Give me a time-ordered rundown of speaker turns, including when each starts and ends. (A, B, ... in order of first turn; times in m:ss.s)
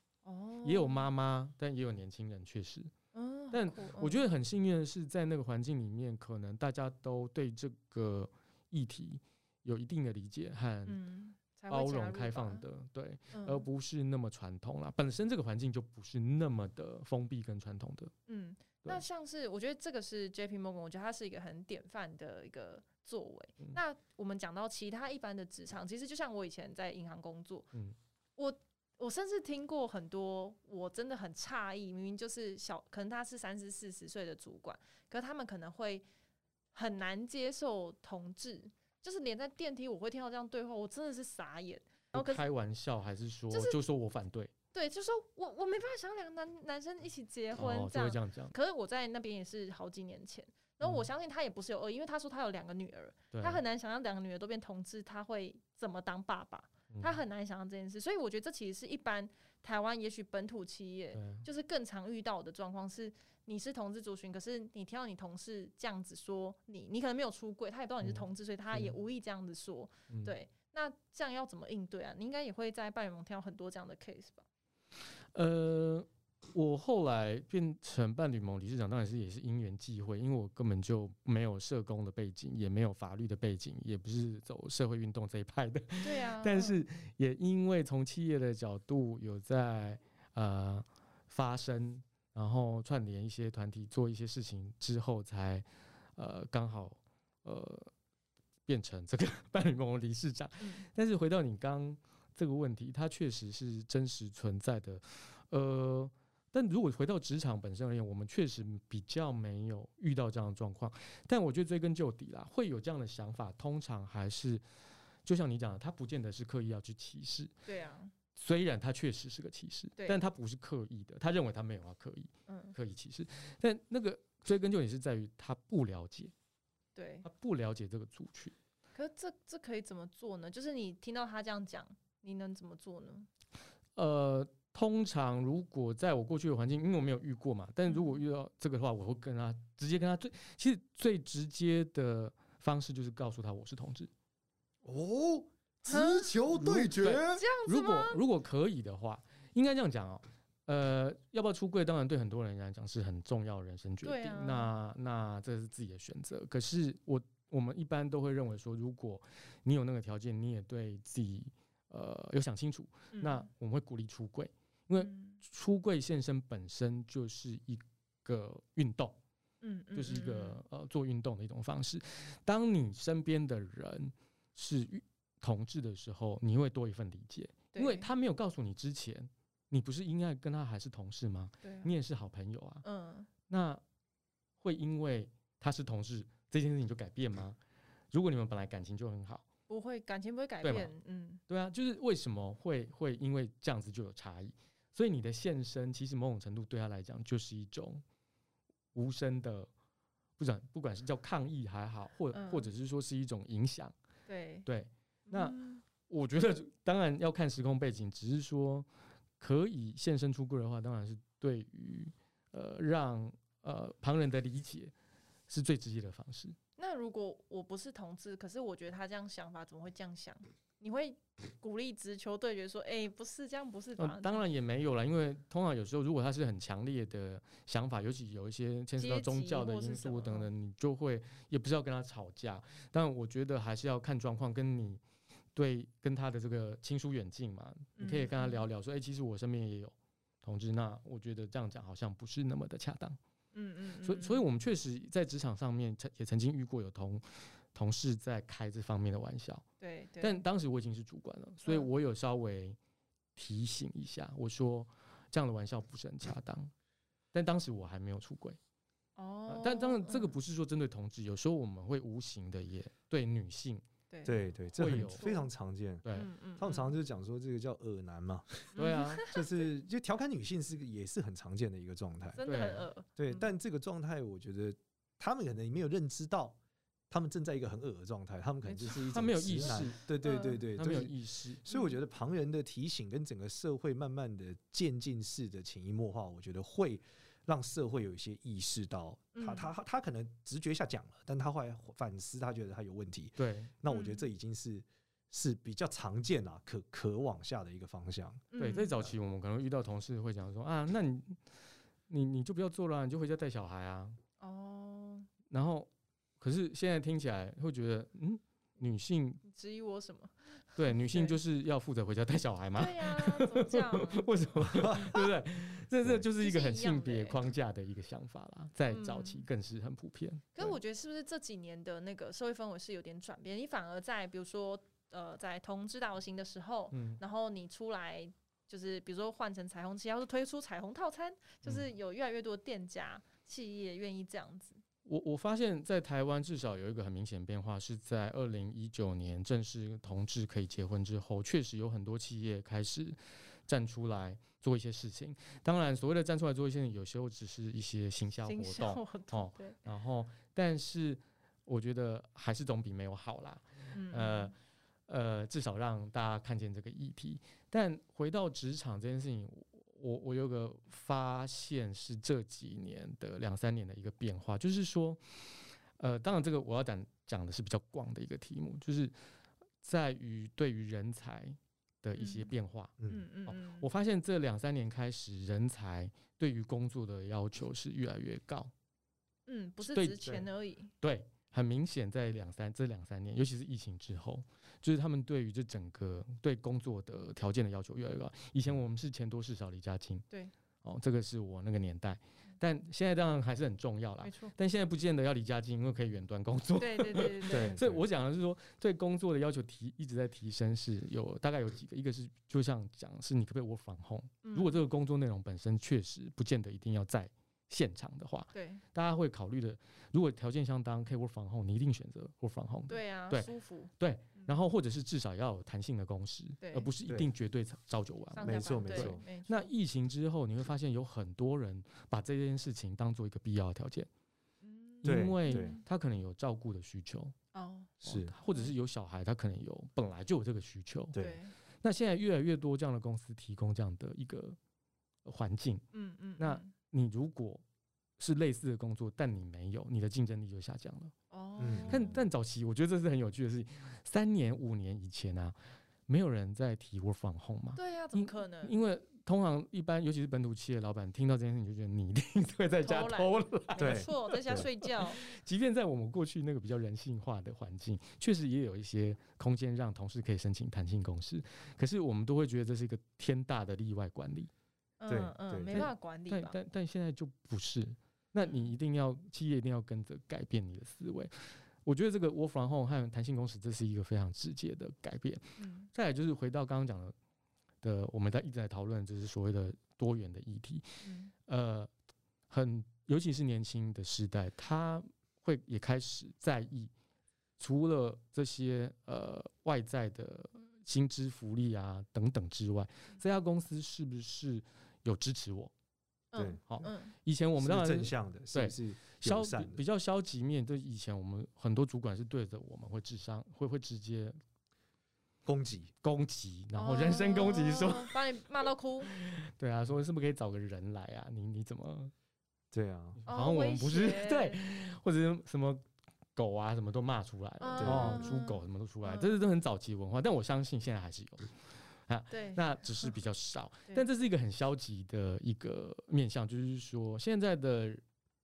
0:00.2-0:01.1 A
0:00.6-0:02.9 B
0:03.1-0:04.2 A
0:03.5-0:11.0 B
0:10.8-0:12.6 A
0:11.7-0:18.1 B
0:13.3-0:13.6 A
0:18.3-0:27.7 A
0:28.4-0:36.0 A
0:36.7-0:42.4 A
0:42.1-0:44.5 B
0:43.5-0:43.8 A
0:44.7-1:14.4 A
0:47.5-0:48.5 B
0:53.3-0:53.6 B
0:56.9-0:57.2 B
1:01.1-1:01.4 B
1:08.0-1:08.9 B
1:15.3-1:35.6 B
1:26.0-1:26.8 A
1:36.2-1:37.9 B
1:38.7-1:54.6 B
1:40.6-1:40.8 A
1:55.2-1:57.5 B
1:57.6-1:58.1 A
1:58.4-2:06.3 B
2:00.0-2:00.2 A
2:02.5-2:02.7 A
2:06.9-2:07.2 A
2:07.2-2:08.5 B
2:08.9-2:13.3 A
2:14.0-2:24.1 B
2:17.9-2:18.2 A
2:24.8-2:27.4 C
2:25.9-2:26.4 A
2:26.5-2:49.2 B
2:27.3-2:28.2 A
2:34.0-2:34.7 A
2:43.1-2:43.5 A
2:45.0-2:45.4 A
2:49.6-2:50.6 A
2:49.9-3:02.8 B
2:57.7-2:58.1 A
3:01.6-3:01.9 A
3:02.8-3:03.3 A
3:03.5-3:03.8 B
3:04.6-3:07.6 B
3:08.1-3:09.4 B
3:09.7-3:11.4 A
3:10.6-3:10.9 B
3:11.5-3:18.0 B
3:18.9-3:19.7 B
3:20.4-3:23.9 B
3:22.3-3:22.7 A
3:24.3-3:24.6 A
3:24.6-3:28.9 B
3:25.3-3:25.8 A
3:29.4-3:34.9 B
3:35.5-3:36.6 B
3:36.8-3:44.4 A
3:44.0-3:55.0 B
3:49.0-3:50.5 A
3:55.5-4:03.2 B
3:58.0-3:58.6 A
4:03.5-4:04.4 A
4:04.0-4:09.6 B
4:09.8-4:10.4 A
4:10.2-4:12.8 B
4:13.4-4:16.7 B
4:17.3-4:18.6 B
4:19.2-4:20.4 A
4:19.5-4:23.8 B
4:24.1-4:24.4 A
4:24.2-4:26.0 C
4:24.8-4:25.2 B
4:25.2-4:25.5 A
4:26.0-4:26.3 B
4:26.1-4:27.0 A
4:26.6-4:28.7 C
4:28.7-4:29.4 A
4:28.8-4:29.3 B
4:29.2-4:32.4 C
4:32.3-4:33.5 A
4:32.4-4:32.8 B
4:33.2-4:36.6 C
4:37.1-4:41.1 C
4:38.6-4:39.0 A
4:39.1-4:40.0 B
4:40.2-4:40.6 A
4:40.7-4:41.6 B
4:41.6-4:58.5 C
4:41.7-4:42.0 A
4:49.3-4:49.7 A
4:53.4-4:53.7 B
4:53.9-4:54.3 A
4:58.5-4:59.0 A
4:58.6-5:01.4 B
5:02.1-5:04.2 B
5:04.4-5:05.3 A
5:05.5-5:05.9 B
5:06.4-5:09.4 B
5:09.4-5:11.4 A
5:10.8-5:20.8 B
5:12.8-5:14.3 A
5:14.7-5:15.3 C
5:16.4-5:17.4 A
5:18.9-5:19.4 A
5:20.5-5:34.8 A
5:26.9-5:27.2 B
5:35.0-5:54.5 B
5:48.4-5:49.8 A
5:53.9-5:54.5 A
5:55.1-6:05.4 B
6:06.0-6:09.1 B
6:09.8-6:12.9 B
6:12.2-6:12.5 A
6:13.1-6:13.9 A
6:13.5-6:18.7 B
6:19.5-6:20.9 A
6:19.9-6:20.5 B
6:21.0-6:30.2 B
6:30.8-7:04.1 B
6:34.2-6:34.5 A
6:36.8-6:37.8 A
6:37.5-6:38.0 C
6:44.4-6:44.8 A
6:48.5-6:48.8 A
6:52.9-6:54.5 A
6:56.6-6:56.9 A
6:58.3-6:59.7 A
6:58.4-6:59.2 C
7:04.6-7:05.8 A
7:05.0-7:07.3 B
7:05.0-7:05.8 C
7:07.5-7:07.9 A
7:08.0-7:08.3 C
7:08.0-7:11.2 B
7:11.1-7:11.4 C
7:11.1-7:11.5 A
7:11.8-7:14.6 B
7:15.2-7:15.8 B
7:15.9-7:16.7 A
7:16.4-7:17.6 B
7:18.2-7:21.1 B
7:21.3-7:22.2 A
7:21.6-7:22.2 C
7:21.9-7:25.6 B
7:26.1-7:44.5 B
7:27.8-7:28.7 A
7:32.8-7:35.2 A
7:33.8-7:34.6 C
7:45.0-7:46.6 A
7:45.1-7:45.8 C
7:45.7-7:57.1 B
7:55.6-7:55.9 A
7:57.8-8:00.9 B
8:01.0-8:01.3 A
8:01.5-8:01.9 B
8:02.5-8:06.9 B
8:07.6-8:15.7 B
8:16.3-8:17.1 A
8:16.7-8:24.4 B
8:17.6-8:19.8 C
8:25.4-8:25.9 C
8:26.0-8:28.2 B
8:26.8-8:29.1 A
8:29.1-8:32.1 B
8:32.7-8:33.2 C
8:33.2-8:35.8 B
8:33.3-8:34.7 A
8:36.4-8:41.5 B
8:37.6-8:39.4 A
8:37.8-8:38.4 C
8:42.1-8:48.0 B
8:42.3-8:43.1 A